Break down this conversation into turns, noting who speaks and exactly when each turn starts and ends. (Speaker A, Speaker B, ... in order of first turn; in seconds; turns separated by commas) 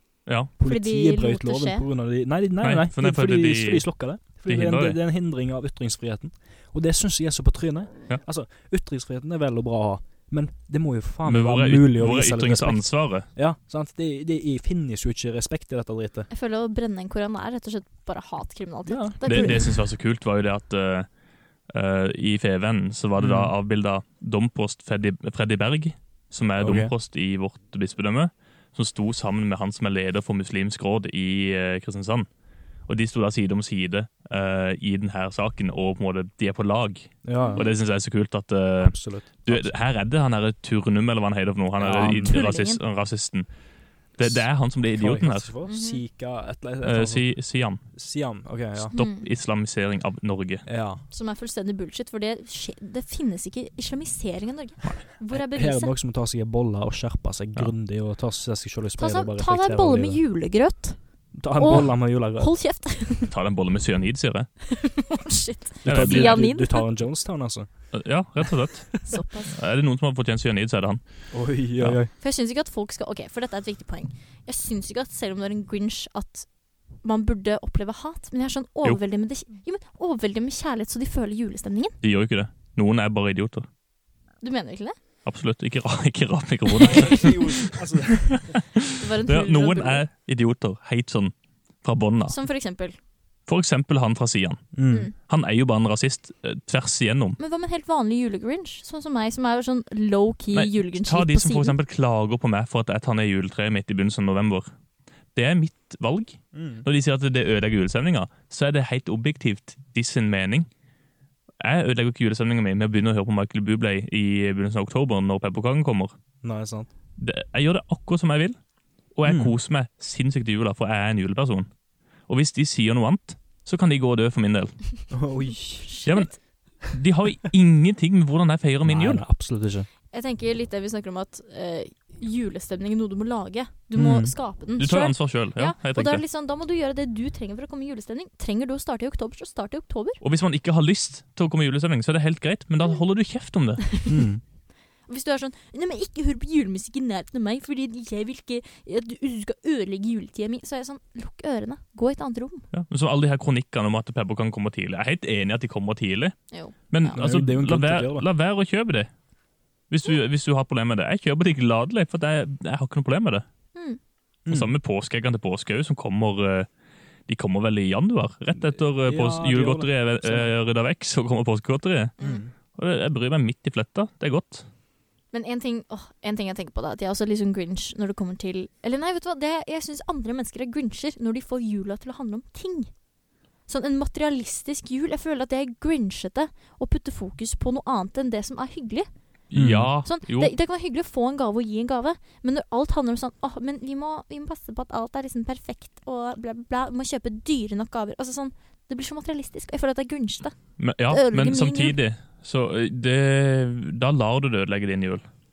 Speaker A: 0.2-0.5, Speaker B: 0.6-16.3, Speaker C: 0.6-1.9, Speaker A: 2.6-5.0, Speaker A: 11.2-13.3, Speaker C: 16.3-19.8, Speaker B: 18.9-19.7, Speaker A: 19.2-21.1, Speaker A: 21.7-32.3, Speaker B: 23.2-23.5, Speaker B: 26.6-26.9, Speaker A: 32.9-43.5, Speaker B: 37.2-37.7, Speaker C: 37.4-37.7, Speaker B: 38.8-39.8, Speaker B: 41.8-42.4, Speaker C: 41.9-42.8, Speaker A: 44.1-45.5, Speaker B: 44.2-48.9, Speaker C: 45.6-46.0, Speaker A: 46.8-47.8, Speaker A: 48.9-50.6, Speaker C: 48.9-49.3, Speaker B: 50.6-51.0, Speaker C: 51.1-55.9, Speaker B: 55.3-60.2, Speaker C: 59.0-63.3, Speaker B: 61.3-62.5, Speaker A: 63.3-64.5, Speaker C: 64.7-66.8, Speaker A: 65.8-66.5, Speaker B: 65.8-68.5, Speaker A: 67.9-72.0, Speaker C: 69.0-69.5, Speaker B: 71.3-72.1, Speaker C: 72.2-82.0, Speaker A: 82.0-83.7, Speaker C: 84.4-85.0, Speaker A: 85.2-88.6, Speaker B: 86.8-88.6, Speaker C: 89.0-90.0, Speaker A: 89.2-92.4, Speaker C: 92.3-93.0, Speaker A: 93.5-97.4, Speaker B: 94.7-95.1, Speaker C: 94.9-95.1, Speaker C: 97.4-101.8, Speaker A: 100.5-104.7, Speaker A: 105.3-110.7, Speaker B: 106.5-106.8, Speaker A: 111.6-116.1, Speaker B: 116.4-116.9, Speaker A: 117.2-118.5, Speaker A: 119.1-121.7, Speaker B: 119.2-119.5, Speaker A: 122.3-125.1, Speaker B: 125.1-126.0, Speaker C: 125.5-126.3, Speaker A: 126.0-129.2, Speaker B: 128.8-129.9, Speaker C: 130.1-140.2, Speaker B: 133.9-134.3, Speaker A: 134.8-136.2, Speaker A: 140.2-144.1, Speaker B: 144.1-144.4, Speaker C: 145.1-152.7, Speaker A: 152.7-159.1, Speaker C: 156.5-157.2, Speaker B: 157.1-158.2, Speaker A: 159.9-163.4, Speaker C: 163.7-164.0, Speaker B: 164.4-164.7, Speaker A: 164.5-166.7, Speaker A: 167.3-174.7, Speaker B: 168.6-170.5, Speaker C: 172.2-172.5, Speaker B: 172.2-172.5, Speaker C: 175.3-183.0, Speaker C: 183.7-189.2, Speaker A: 189.5-190.5, Speaker B: 189.5-189.9, Speaker C: 190.0-202.0, Speaker A: 200.8-205.2